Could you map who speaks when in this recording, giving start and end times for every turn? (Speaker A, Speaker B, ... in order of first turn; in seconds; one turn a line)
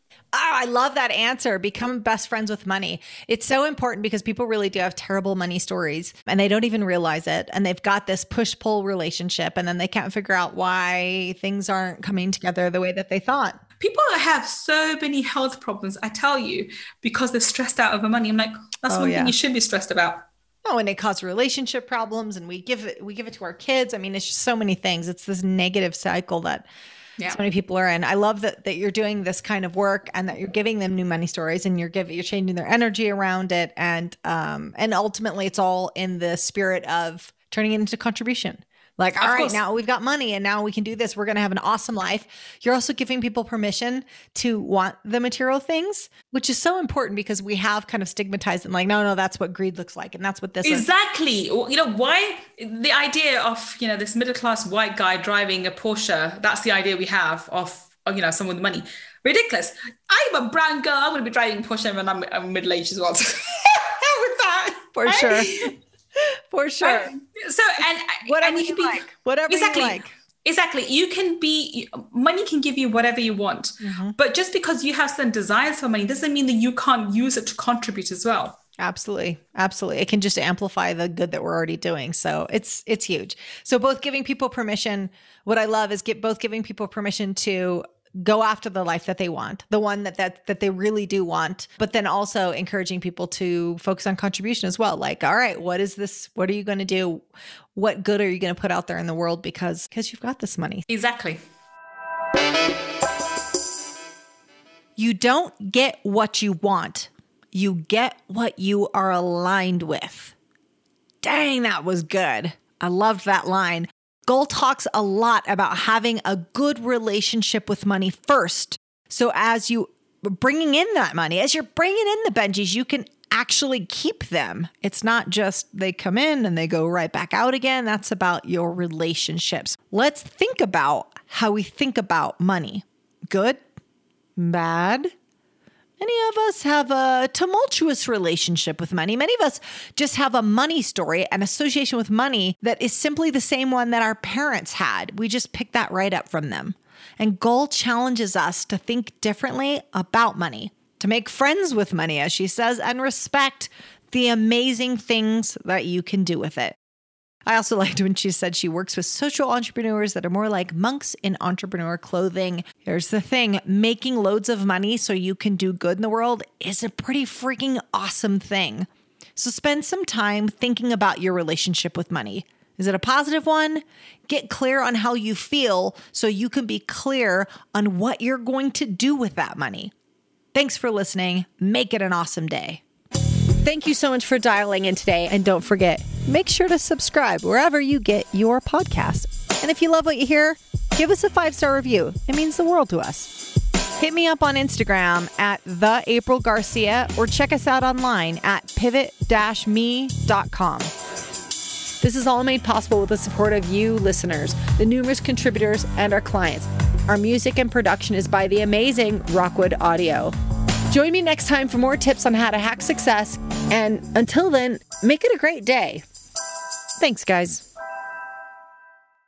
Speaker A: 0.3-13.6
Speaker B: 13.8-20.2
Speaker A: 18.9-19.3
Speaker A: 20.6-26.7
Speaker B: 27.2-27.4
Speaker A: 27.3-50.9
Speaker B: 39.2-39.6
Speaker B: 50.6-65.7
Speaker A: 64.9-67.1
Speaker B: 66.8-78.6
Speaker A: 68.2-70.1
Speaker A: 73.8-74.1
Speaker A: 78.8-100.8
Speaker B: 100.9-101.4
Speaker A: 105.0-110.3
Speaker A: 111.2-133.6
Speaker A: 134.4-135.1
Speaker A: 136.0-156.8
Speaker A: 157.4-179.9
Speaker A: 180.5-182.8
Speaker A: 183.6-193.5
Speaker A: 194.0-200.9
Speaker A: 202.0-210.3
Speaker A: 210.9-216.1
Speaker A: 217.0-217.7